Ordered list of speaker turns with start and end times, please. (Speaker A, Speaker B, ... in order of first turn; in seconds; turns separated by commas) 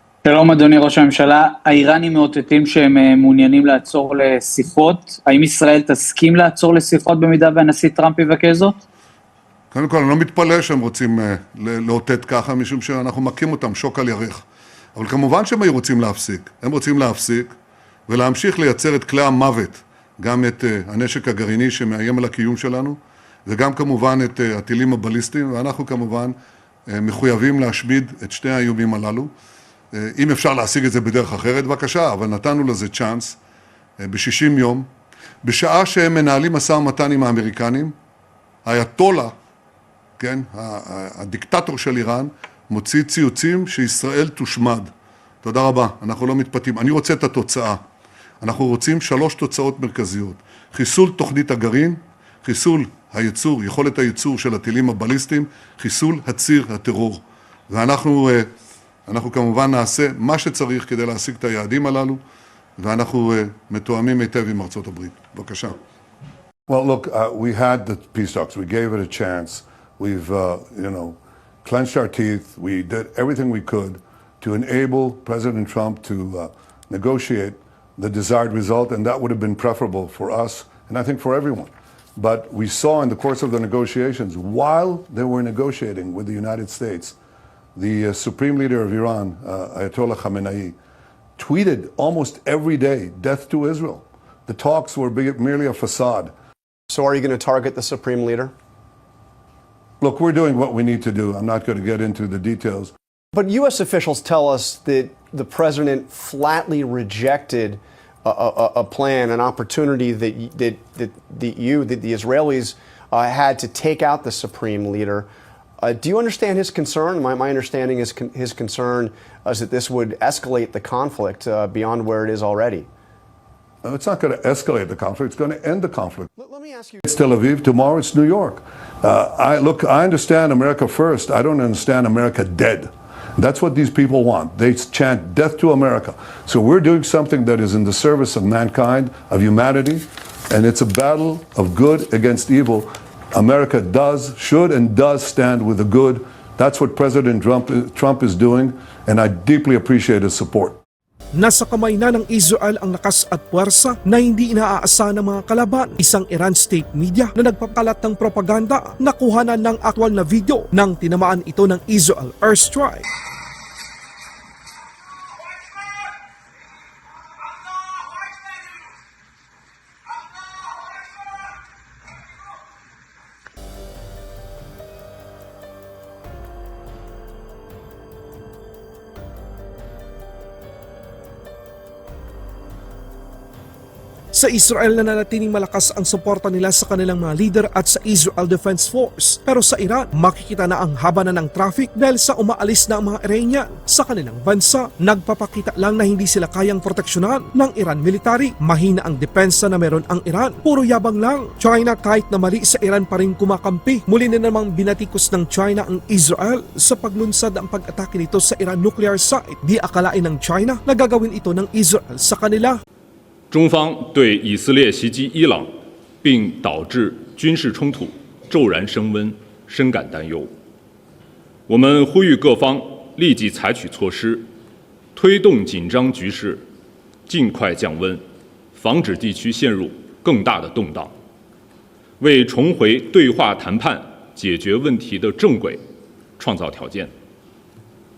Speaker A: 0.2-8.7, Speaker B: 9.7-14.4, Speaker B: 15.0-17.5, Speaker B: 18.1-22.9, Speaker B: 23.5-26.3, Speaker B: 26.9-29.3, Speaker B: 30.2-33.4, Speaker B: 34.0-34.8, Speaker B: 35.4-37.9, Speaker B: 38.6-39.3, Speaker B: 40.2-44.9, Speaker B: 45.4-47.8, Speaker B: 48.4-58.4, Speaker B: 59.1-62.2, Speaker B: 62.8-65.7, Speaker C: 66.7-87.1, Speaker C: 87.8-90.8, Speaker C: 91.4-96.3, Speaker D: 96.9-98.5, Speaker C: 100.0-102.9, Speaker D: 103.3-115.3, Speaker D: 115.8-122.9, Speaker C: 123.8-126.3, Speaker D: 126.4-127.0, Speaker C: 127.0-150.8, Speaker E: 151.4-163.1, Speaker E: 184.3-212.8, Speaker F: 213.5-215.7, Speaker F: 216.2-220.5, Speaker F: 221.7-224.5, Speaker F: 225.1-226.6, Speaker F: 227.3-228.2, Speaker F: 228.8-231.1, Speaker F: 232.2-235.8, Speaker F: 236.4-237.1